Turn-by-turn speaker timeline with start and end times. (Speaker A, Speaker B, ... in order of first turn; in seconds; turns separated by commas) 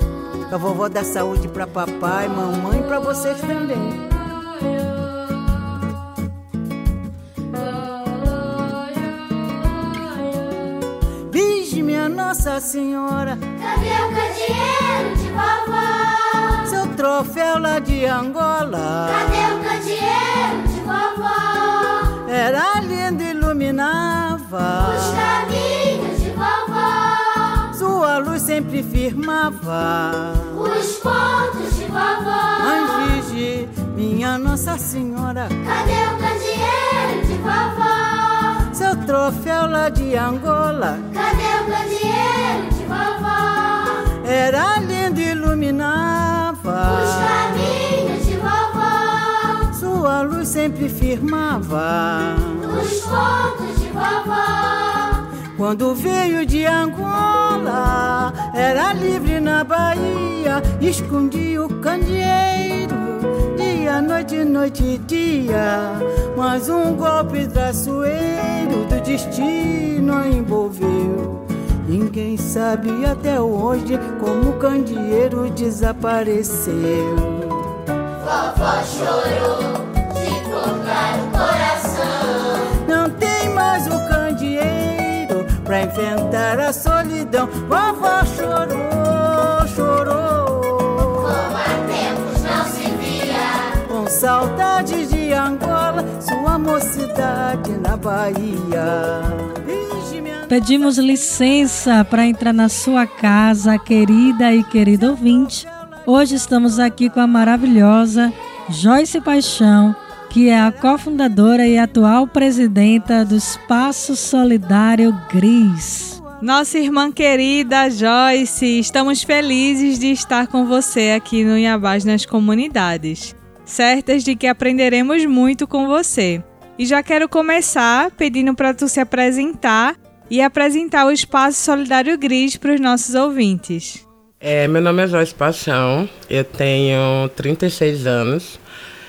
Speaker A: 0.5-4.1, Speaker A: 11.3-13.4, Speaker B: 13.6-15.9, Speaker A: 16.6-19.6, Speaker B: 19.5-21.4, Speaker A: 22.2-25.5, Speaker B: 25.6-26.8, Speaker A: 27.7-30.8, Speaker B: 30.8-32.4, Speaker A: 32.5-35.6, Speaker B: 35.7-38.0, Speaker A: 38.7-41.1, Speaker B: 41.2-43.4, Speaker A: 44.2-47.9, Speaker B: 47.8-49.1, Speaker A: 49.7-53.0, Speaker B: 52.9-54.7, Speaker A: 55.6-77.7, Speaker B: 80.6-81.9, Speaker A: 82.8-91.5, Speaker B: 92.0-93.3, Speaker A: 93.9-100.5, Speaker C: 100.5-116.2, Speaker D: 116.4-134.0, Speaker E: 134.4-138.6